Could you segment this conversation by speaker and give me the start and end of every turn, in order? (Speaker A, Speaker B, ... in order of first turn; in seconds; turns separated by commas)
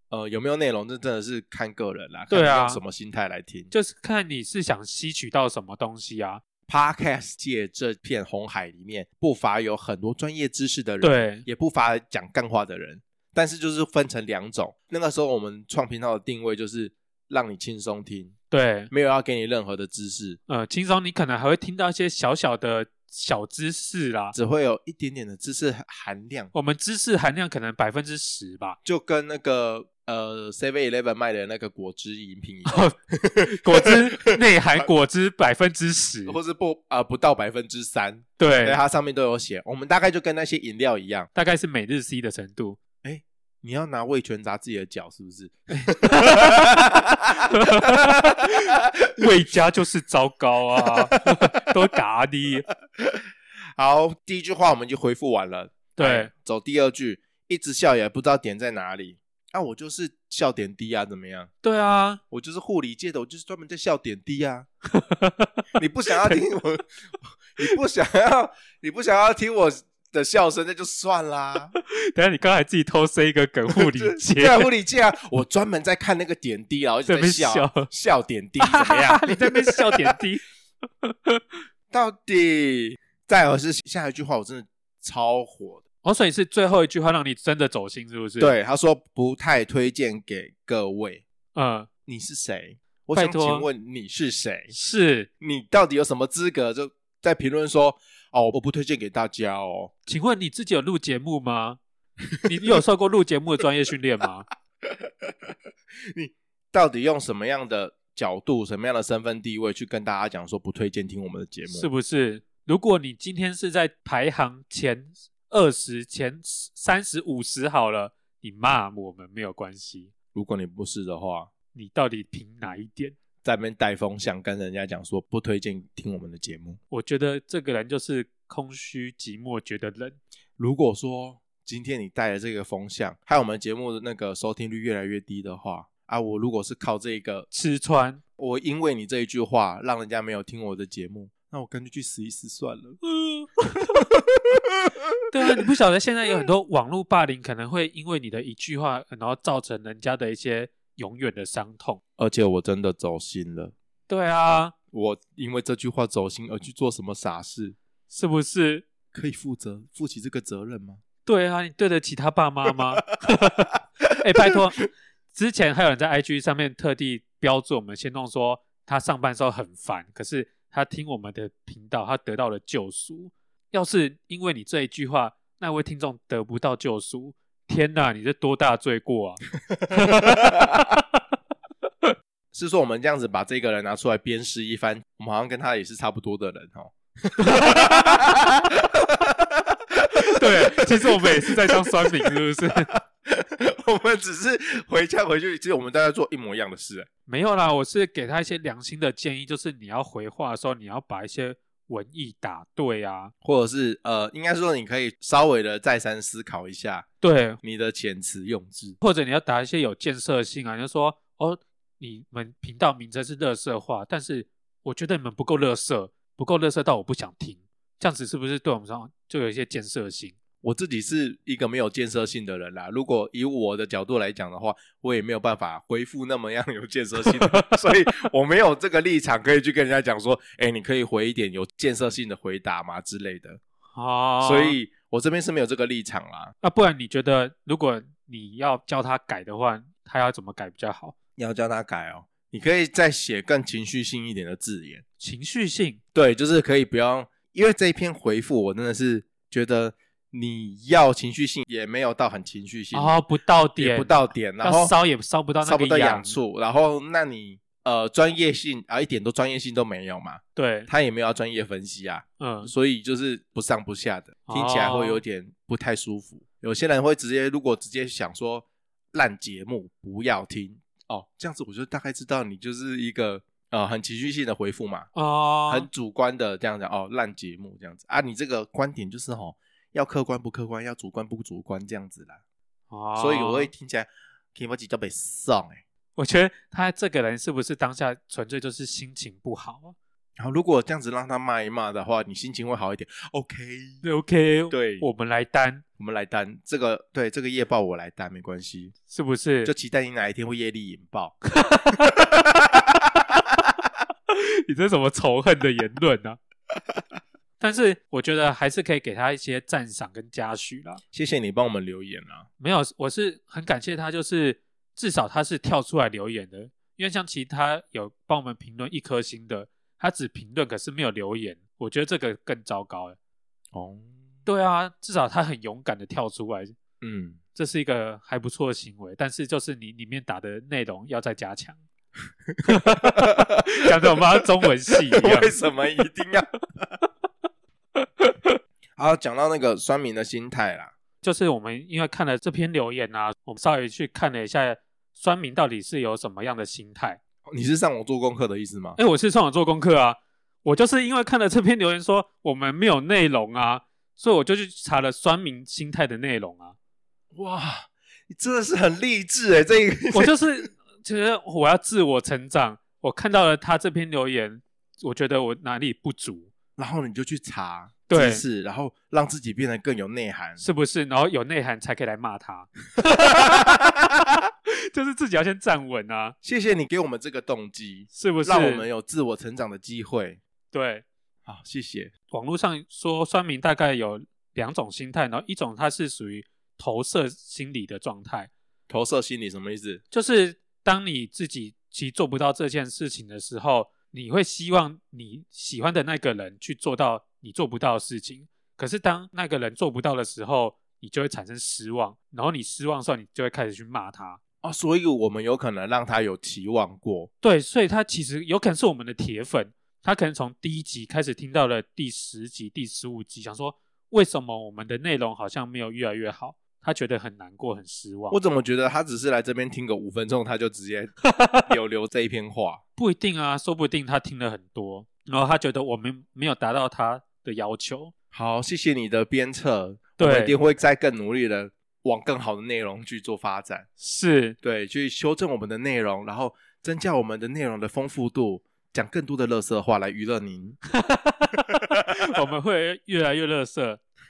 Speaker A: 0.1-3.7, Speaker B: 2.3-2.8, Speaker B: 3.7-6.4, Speaker A: 6.7-18.3, Speaker B: 11.0-11.4, Speaker B: 18.5-18.9, Speaker A: 18.9-20.4, Speaker B: 20.5-24.3, Speaker A: 24.3-26.5, Speaker B: 26.5-28.8, Speaker A: 28.8-34.9, Speaker B: 32.7-32.9, Speaker B: 33.5-36.4, Speaker A: 36.2-41.3, Speaker B: 38.4-38.8, Speaker B: 41.3-42.8, Speaker A: 43.0-49.6, Speaker B: 45.7-46.8, Speaker B: 47.4-52.7, Speaker A: 53.8-61.5, Speaker B: 56.0-56.3, Speaker B: 61.6-62.2, Speaker A: 62.3-64.7, Speaker B: 64.9-65.6, Speaker A: 65.8-66.9, Speaker A: 67.5-71.7, Speaker B: 71.7-74.7, Speaker A: 73.7-80.2, Speaker B: 77.1-77.9, Speaker B: 78.6-80.4, Speaker B: 81.0-81.4, Speaker A: 81.9-85.8, Speaker B: 86.0-88.5, Speaker A: 88.4-91.2, Speaker B: 91.5-91.9, Speaker A: 92.0-94.7, Speaker B: 93.1-93.7, Speaker B: 94.7-95.3, Speaker A: 95.4-99.9, Speaker B: 100.1-101.8, Speaker A: 102.3-102.8, Speaker B: 102.4-104.5, Speaker A: 104.8-105.5, Speaker A: 106.1-111.9, Speaker B: 111.7-120.1, Speaker A: 120.3-121.5, Speaker B: 121.7-123.2, Speaker A: 123.4-126.8, Speaker B: 126.9-130.2, Speaker A: 130.6-137.5, Speaker B: 137.5-138.2, Speaker A: 138.4-143.0, Speaker B: 143.1-144.1, Speaker A: 143.9-145.7, Speaker B: 145.3-152.0, Speaker A: 152.2-153.7, Speaker B: 154.1-154.7, Speaker A: 154.9-157.8, Speaker B: 158.1-158.8, Speaker A: 159.1-161.0, Speaker B: 161.2-180.8, Speaker A: 179.9-180.8, Speaker A: 182.5-197.1, Speaker B: 187.4-188.3, Speaker B: 190.3-192.9, Speaker B: 197.3-203.3, Speaker A: 203.4-207.1, Speaker B: 207.2-207.6, Speaker A: 207.6-209.0, Speaker B: 209.0-220.3, Speaker A: 220.6-233.6, Speaker B: 227.3-227.8, Speaker B: 233.9-234.8, Speaker A: 234.4-236.5, Speaker B: 236.6-241.1, Speaker A: 241.4-245.0, Speaker B: 245.2-246.0, Speaker A: 246.1-253.1, Speaker B: 252.9-256.4, Speaker A: 253.8-254.9, Speaker A: 255.6-275.1, Speaker B: 260.6-260.9, Speaker B: 262.4-262.7, Speaker B: 264.5-265.2, Speaker B: 275.1-275.9, Speaker A: 275.7-282.4, Speaker B: 282.9-283.7, Speaker A: 283.1-285.8, Speaker B: 286.1-289.9, Speaker A: 290.4-294.0, Speaker B: 294.0-295.8, Speaker A: 294.7-295.1, Speaker A: 296.0-298.9, Speaker B: 299.1-299.7, Speaker A: 299.6-301.4, Speaker B: 301.5-302.2, Speaker A: 302.0-303.6, Speaker B: 304.3-306.4, Speaker B: 307.6-311.0, Speaker A: 311.1-312.5, Speaker B: 312.6-323.1, Speaker A: 323.7-324.1, Speaker B: 324.4-326.8, Speaker A: 327.0-327.4, Speaker B: 327.6-331.8, Speaker A: 332.5-336.9, Speaker B: 332.6-335.5, Speaker B: 338.2-338.5, Speaker A: 339.0-340.9, Speaker B: 341.2-347.2, Speaker A: 347.5-349.0, Speaker B: 349.0-356.8, Speaker A: 357.3-360.4, Speaker B: 360.1-366.5, Speaker A: 366.8-370.6, Speaker B: 368.1-368.4, Speaker B: 370.6-373.9, Speaker A: 373.1-374.0, Speaker B: 374.7-376.3, Speaker A: 376.4-380.4, Speaker B: 378.1-378.9, Speaker B: 380.7-381.0, Speaker A: 381.4-382.1, Speaker B: 382.3-388.5, Speaker A: 388.9-390.0, Speaker B: 390.1-404.4, Speaker A: 404.6-407.3, Speaker B: 407.4-418.4, Speaker A: 418.3-422.8, Speaker B: 421.3-421.6, Speaker B: 423.0-428.1, Speaker A: 428.3-433.9, Speaker B: 430.2-430.5, Speaker B: 434.0-434.6, Speaker A: 434.6-440.8, Speaker B: 440.9-444.0, Speaker A: 441.7-442.0